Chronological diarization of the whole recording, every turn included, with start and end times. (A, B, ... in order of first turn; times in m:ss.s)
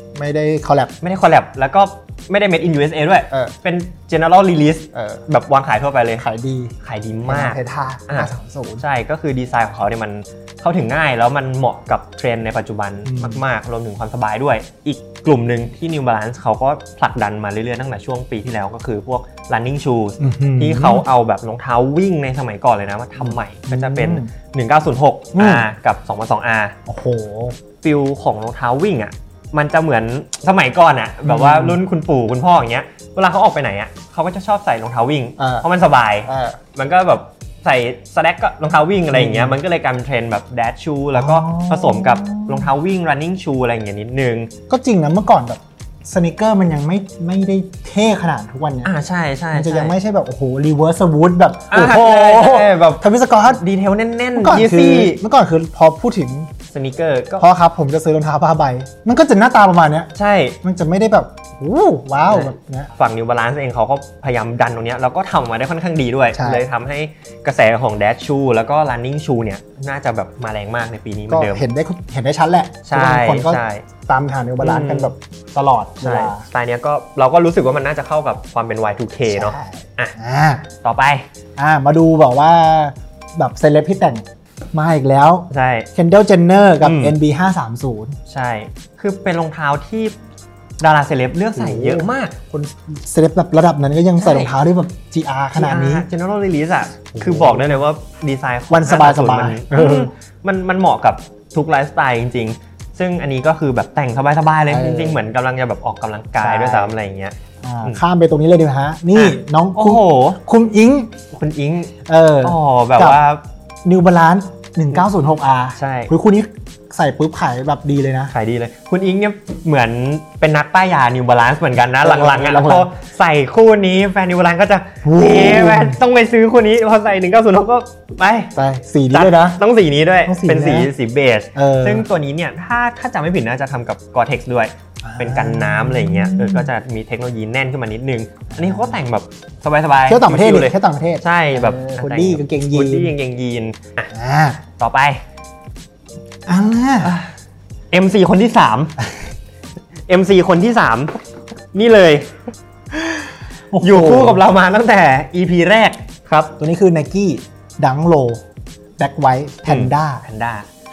0:00.1-0:00.9 A
0:01.0-0:06.2 B
0:04.9-0:05.2 A
0:06.2-0:08.8 A
0:06.8-0:26.8 B
0:13.0-0:13.4 A
0:20.2-0:21.0 A
0:23.2-0:24.3 A
0:25.3-0:25.7 A
0:26.9-0:27.6 A
0:27.8-0:44.5 B
0:31.2-0:31.8 A
0:35.4-0:35.6 A
0:36.2-0:36.6 A
0:39.1-0:39.6 A
0:41.1-0:42.7 A
0:44.7-0:48.9 A
0:48.8-0:49.9 B
0:49.5-0:53.6 A
0:51.7-0:55.2 B
0:54.3-0:56.5 A
0:56.7-0:57.4 B
0:57.4-1:00.1 A
1:00.1-1:00.6 B
1:00.6-1:02.9 A
1:02.3-1:11.6 B
1:06.3-1:06.6 A
1:11.3-1:16.4 A
1:12.9-1:13.8 B
1:14.6-1:15.1 B
1:16.0-1:20.1 B
1:19.3-1:20.7 A
1:20.8-1:21.3 B
1:21.6-1:28.2 A
1:25.5-1:25.9 B
1:26.8-1:27.2 B
1:28.3-1:30.1 B
1:30.8-1:32.4 B
1:31.6-1:36.0 A
1:34.2-1:34.5 B
1:35.5-1:48.0 B
1:37.1-1:37.8 A
1:38.7-1:40.1 A
1:44.7-1:45.2 A
1:46.4-1:46.9 A
1:47.6-1:51.1 A
1:49.1-1:50.4 B
1:51.3-1:53.4 B
1:52.0-1:53.2 A
1:53.8-1:58.3 A
1:55.8-1:56.1 B
1:58.3-2:08.5 B
2:02.0-2:02.9 A
2:05.0-2:06.0 A
2:08.5-2:09.6 A
2:09.1-2:24.1 B
2:10.2-2:10.9 A
2:11.5-2:12.0 A
2:15.0-2:16.7 A
2:18.5-2:19.0 A
2:20.1-2:23.1 A
2:24.1-2:24.6 A
2:24.8-2:25.2 B
2:26.4-2:27.2 A
2:27.0-2:27.3 B
2:27.9-2:29.0 B
2:30.1-2:31.2 B
2:31.7-2:32.3 B
2:32.9-2:36.5 B
2:33.7-2:34.4 A
2:36.6-2:38.4 A
2:39.0-2:40.2 A
2:39.6-2:40.7 B